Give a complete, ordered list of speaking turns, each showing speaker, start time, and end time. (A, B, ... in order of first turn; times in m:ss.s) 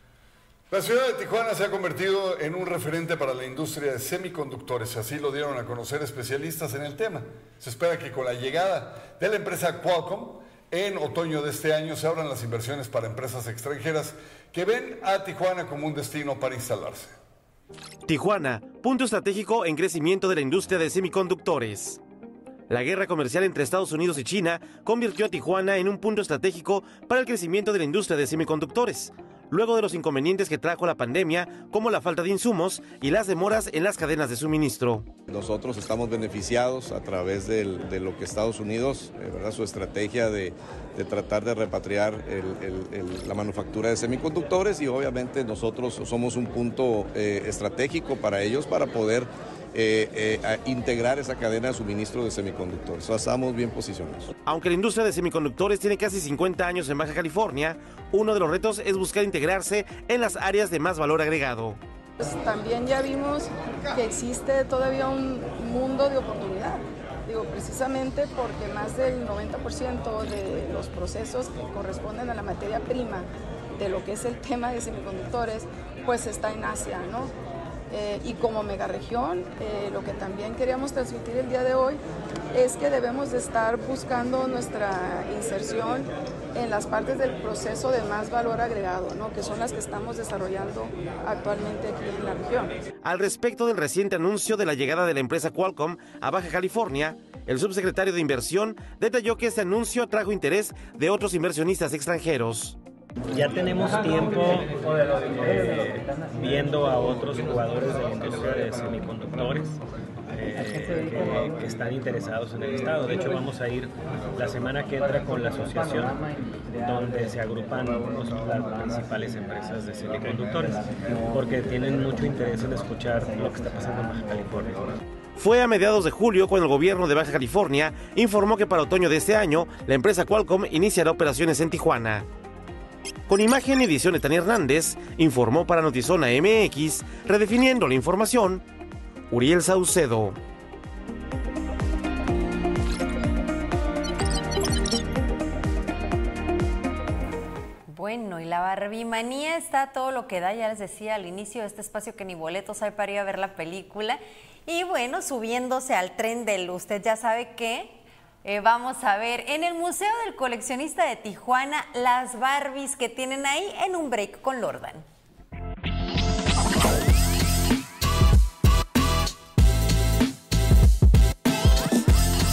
0:00.7-0:17.2 A
0:18.1-0:22.0 B
0:22.7-0:35.1 B
0:35.3-0:54.3 C
0:54.5-1:01.8 B
1:02.2-1:17.3 D
1:17.9-1:22.0 D
1:22.5-1:32.8 D
1:33.0-1:42.8 B
1:43.3-1:56.2 E
1:56.8-2:04.9 E
2:05.4-2:12.3 B
2:13.3-2:18.6 B
2:19.3-2:20.4 B
2:27.9-2:45.0 F